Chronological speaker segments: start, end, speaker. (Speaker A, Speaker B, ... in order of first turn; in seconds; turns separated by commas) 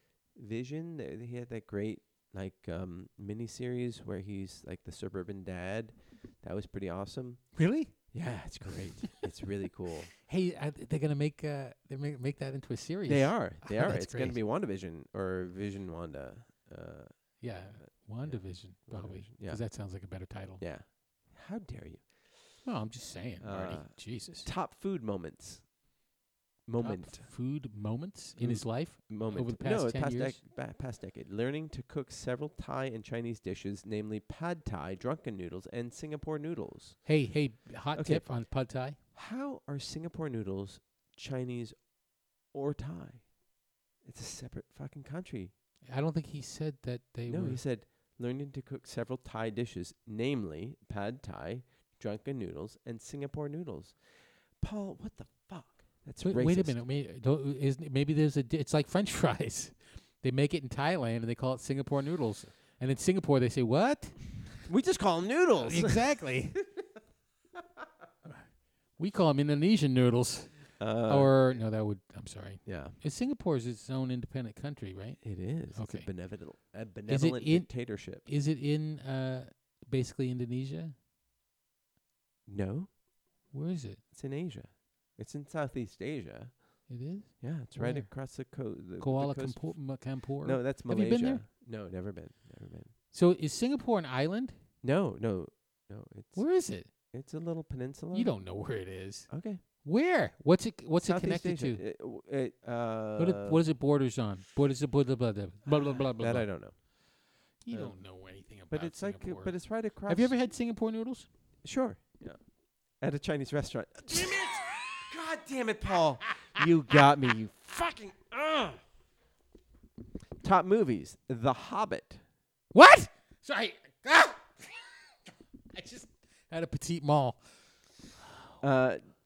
Speaker A: 0.3-10.1, Speaker B: 7.5-8.1, Speaker B: 10.2-14.4, Speaker A: 13.1-17.3, Speaker B: 17.4-20.6, Speaker A: 17.8-19.6, Speaker A: 20.6-22.1, Speaker B: 22.6-24.5, Speaker A: 23.4-25.7, Speaker A: 26.7-27.3, Speaker B: 26.8-30.4, Speaker A: 28.4-37.1, Speaker B: 37.0-39.0, Speaker A: 37.9-38.3, Speaker A: 39.1-41.9, Speaker A: 42.5-43.3, Speaker A: 44.0-45.5, Speaker B: 45.9-47.6, Speaker A: 47.3-54.0, Speaker A: 54.6-56.8, Speaker B: 56.2-64.2, Speaker A: 64.7-66.0, Speaker B: 65.6-66.6, Speaker B: 69.0-76.1, Speaker A: 70.8-71.5, Speaker A: 72.6-72.9, Speaker A: 75.2-78.2, Speaker B: 77.1-80.9, Speaker A: 82.5-82.9, Speaker B: 83.5-84.0, Speaker A: 84.1-86.9, Speaker B: 86.9-88.1, Speaker A: 87.4-89.8, Speaker B: 89.0-91.4, Speaker A: 90.4-92.9, Speaker B: 93.1-94.6, Speaker A: 94.8-96.5, Speaker B: 96.3-96.9, Speaker A: 97.1-98.3, Speaker B: 98.1-101.8, Speaker A: 99.3-99.6, Speaker A: 101.0-103.6, Speaker B: 103.2-106.5, Speaker A: 105.7-106.7, Speaker B: 107.6-111.3, Speaker A: 107.7-108.0, Speaker A: 108.7-110.3, Speaker A: 111.6-112.4, Speaker A: 113.0-118.8, Speaker B: 114.1-114.6, Speaker A: 120.4-122.2, Speaker B: 122.7-125.0, Speaker B: 125.7-127.4, Speaker A: 128.6-129.0